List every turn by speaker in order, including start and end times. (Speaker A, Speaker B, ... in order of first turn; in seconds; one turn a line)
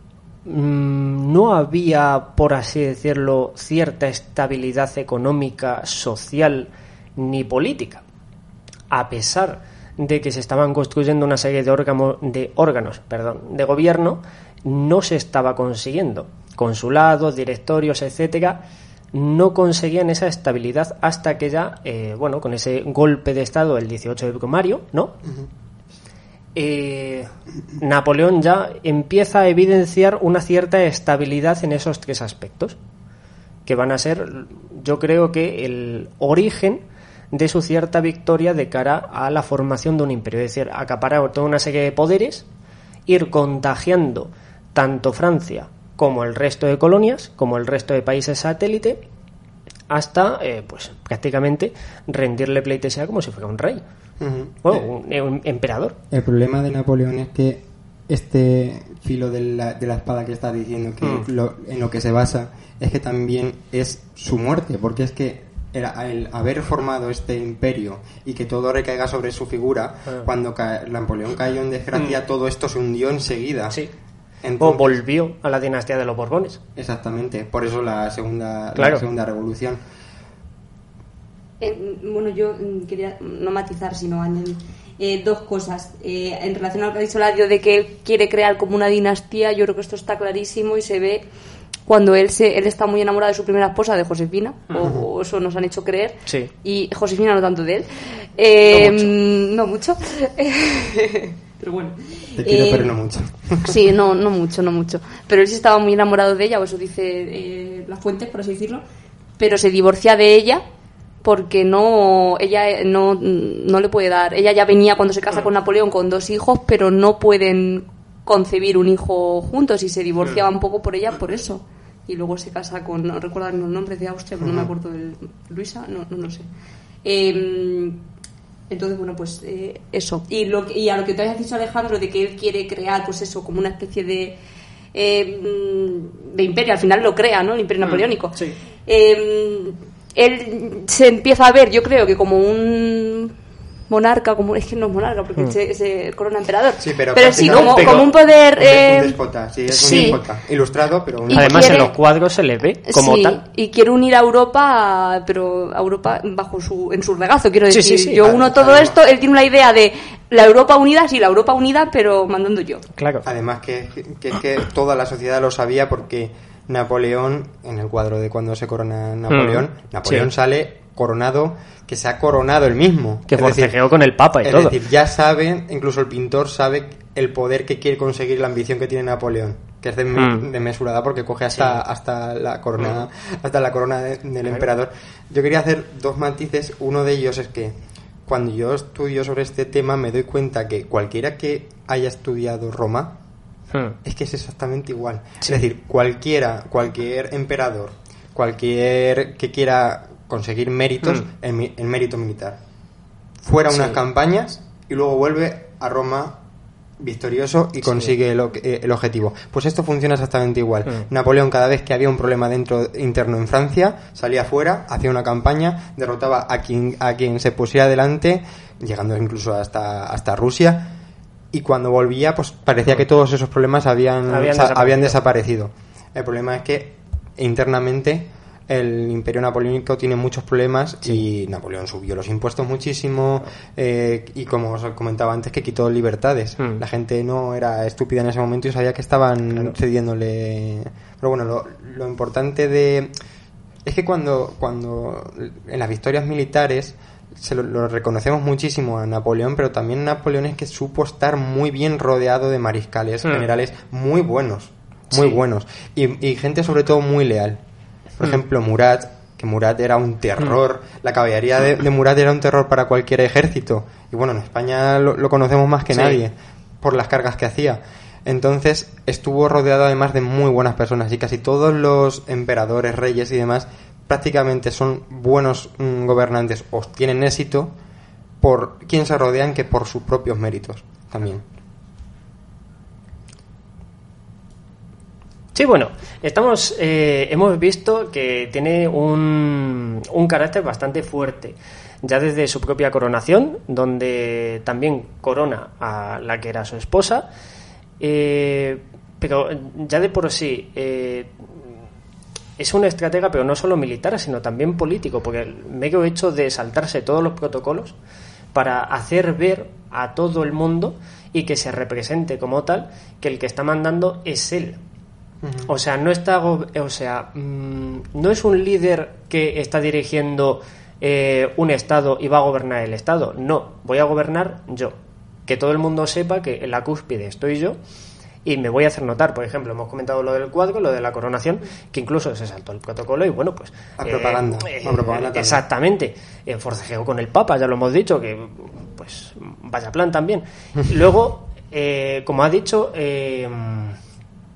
Speaker A: 0.5-8.0
Speaker A: 8.9-18.6
Speaker A: 19.1-25.2
Speaker A: 26.6-32.8
Speaker A: 33.7-42.5
Speaker A: 43.1-49.0
Speaker A: 49.9-53.8
Speaker B: 54.2-54.9
Speaker A: 54.6-56.0
Speaker B: 56.1-73.8
Speaker A: 61.0-61.3
Speaker B: 74.4-75.0
Speaker A: 74.6-76.6
Speaker B: 76.8-79.8
Speaker A: 78.8-79.0
Speaker C: 81.6-91.2
Speaker C: 91.9-102.9
Speaker B: 94.8-95.1
Speaker A: 96.3-96.5
Speaker A: 98.7-99.1
Speaker B: 102.4-103.8
Speaker C: 103.6-108.8
Speaker C: 109.4-110.6
Speaker C: 111.2-126.5
Speaker B: 124.4-124.7
Speaker C: 127.0-128.0
Speaker C: 128.7-134.4
Speaker C: 134.9-143.3
Speaker A: 137.8-138.6
Speaker C: 143.9-149.2
Speaker B: 146.8-151.9
Speaker A: 147.3-148.1
Speaker A: 149.8-150.2
Speaker C: 149.8-150.2
Speaker C: 151.3-151.9
Speaker A: 151.3-153.4
Speaker C: 152.9-162.9
Speaker A: 157.7-158.3
Speaker B: 158.2-159.0
Speaker A: 163.0-163.3
Speaker B: 163.2-173.8
Speaker A: 169.3-170.3
Speaker A: 173.3-174.8
Speaker B: 174.4-193.2
Speaker A: 180.1-180.5
Speaker A: 181.5-181.8
Speaker A: 182.8-183.0
Speaker A: 193.7-194.0
Speaker B: 194.0-202.6
Speaker B: 203.4-206.4
Speaker A: 203.7-204.0
Speaker B: 207.0-221.0
Speaker A: 207.8-208.2
Speaker B: 221.5-243.1
Speaker A: 224.3-225.2
Speaker B: 243.8-257.6
Speaker A: 255.1-255.4
Speaker B: 258.2-277.7
Speaker A: 265.9-266.2
Speaker B: 278.4-281.4
Speaker A: 285.6-297.3
Speaker A: 298.0-301.7
Speaker A: 302.6-307.9
Speaker A: 308.5-314.8
Speaker B: 315.4-315.7
Speaker A: 315.6-327.8
Speaker A: 328.4-344.0
Speaker B: 334.0-335.6